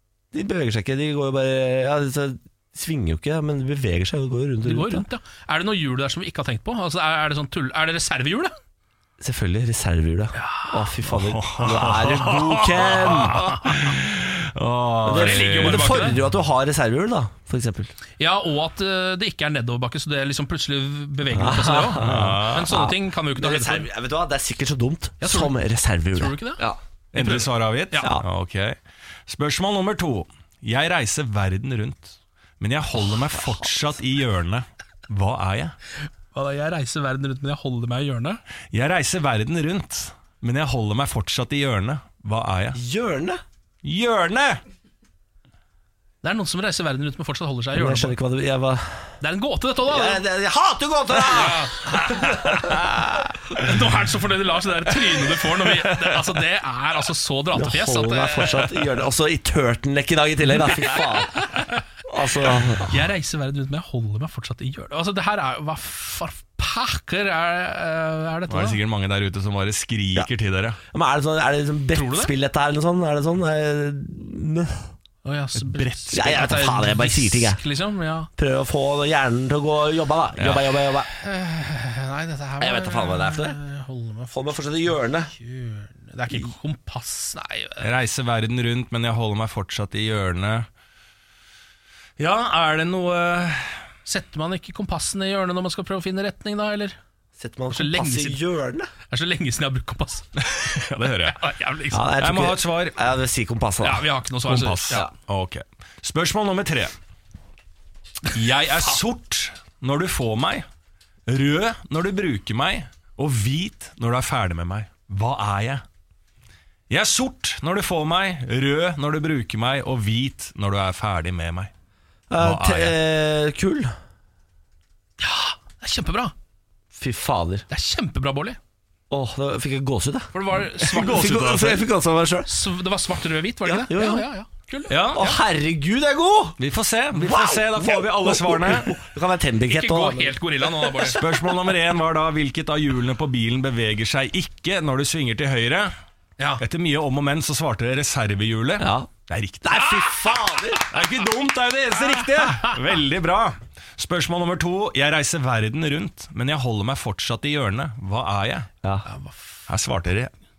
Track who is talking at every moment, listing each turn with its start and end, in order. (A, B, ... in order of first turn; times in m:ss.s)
0:00.3-0:05.0 A
0:04.6-0:08.5 B
0:09.2-0:13.6 A
0:10.4-0:10.9 B
0:11.1-0:16.2 C
0:15.0-0:17.9 A
0:15.2-0:16.2 B
0:18.2-0:23.9 B
0:21.3-0:26.8 A
0:22.0-0:22.7 C
0:25.2-0:25.6 B
0:26.1-0:26.6 B
0:27.1-0:35.8 C
0:27.2-0:28.1 B
0:28.0-0:28.2 A
0:36.3-0:38.4 B
0:38.7-0:42.8 C
0:42.8-0:43.4 A
0:43.8-0:44.6 C
0:46.2-0:48.2 B
0:47.7-0:49.0 A
0:49.2-0:50.2 B
0:49.9-0:53.3 A
0:51.1-0:52.0 B
0:52.0-0:52.6 C
0:53.5-0:58.7 B
0:55.9-0:56.2 C
0:57.6-1:01.4 A
1:01.4-1:01.8 B
1:02.1-1:03.0 A
1:02.9-1:08.8 B
1:08.5-1:10.8 C
1:10.9-1:14.9 A
1:11.9-1:12.3 B
1:15.2-1:18.3 B
1:15.6-1:16.4 C
1:16.1-1:17.6 A
1:18.4-1:21.1 A
1:20.4-1:20.7 C
1:21.1-1:27.9 B
1:22.6-1:23.6 A
1:24.3-1:25.3 A
1:27.8-1:30.7 C
1:32.2-1:33.8 C
1:34.1-1:37.0 B
1:37.4-1:38.9 A
1:37.7-1:38.4 B
1:39.1-1:40.3 B
1:40.4-1:41.4 C
1:41.3-1:42.1 B
1:41.9-1:44.0 A
1:42.2-1:43.0 C
1:43.8-1:45.0 B
1:44.5-1:46.9 C
1:48.3-1:50.7 C
1:51.3-1:55.8 C
1:56.9-2:01.7 C
2:02.3-2:03.9 A
2:02.4-2:03.0 C
2:05.2-2:06.3 B
2:06.9-2:07.7 A
2:07.7-2:08.6 B
2:09.1-2:12.5 A
2:10.3-2:11.3 B
2:10.8-2:11.8 C
2:12.5-2:15.4 B
2:13.6-2:14.3 A
2:14.9-2:15.3 C
2:15.1-2:16.6 A
2:16.6-2:19.0 C
2:17.1-2:21.2 A
2:19.7-2:21.2 B
2:21.2-2:25.9 C
2:26.6-2:30.1 C
2:28.8-2:29.1 A
2:29.6-2:30.9 A
2:30.8-2:38.7 C
2:39.1-2:39.6 B
2:39.7-2:40.3 C